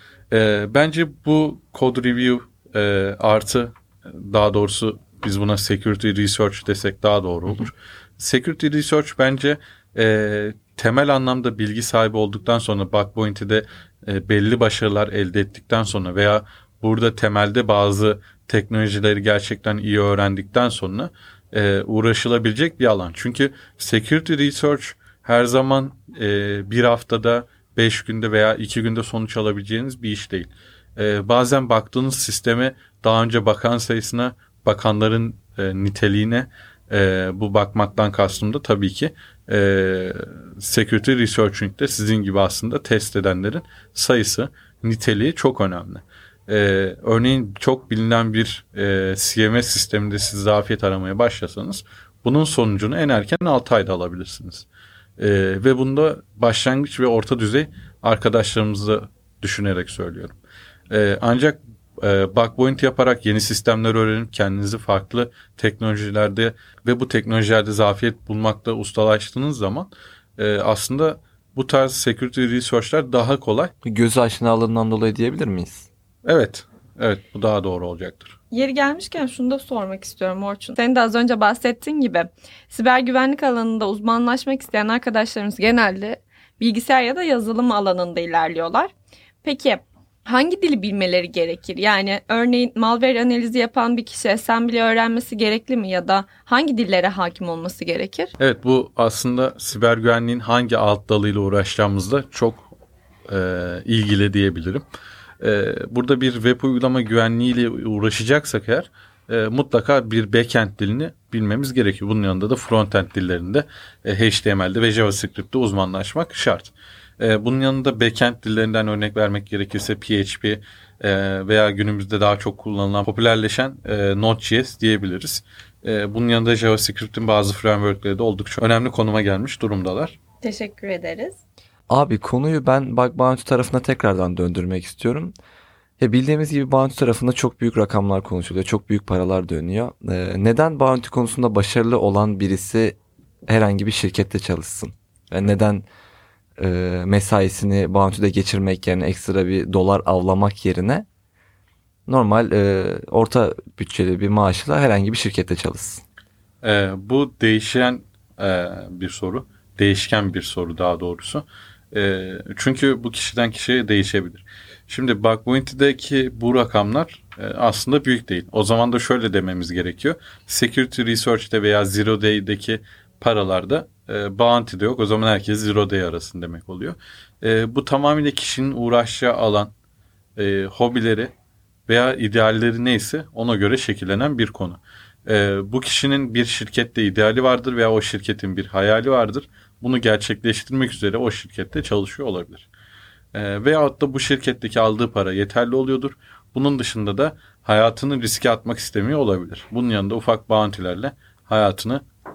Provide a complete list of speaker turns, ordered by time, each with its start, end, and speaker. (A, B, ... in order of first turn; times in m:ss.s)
0:00.3-0:54.6 A
0:55.2-1:00.3 A
1:00.9-1:13.7 A
1:13.8-1:15.9 B
1:16.2-1:18.4 A
1:18.5-1:28.9 C
1:29.4-1:38.3 C
1:38.4-1:42.7 A
1:43.3-1:44.8 A
1:45.4-2:10.2 A
2:10.4-2:11.4 C
2:11.9-2:15.3 B
2:16.0-2:25.8 B
2:26.6-2:31.0 B
2:32.1-2:36.0 B
2:36.6-2:59.7 A
3:00.4-3:01.3 A
3:01.9-3:12.7 A
3:13.3-3:22.0 A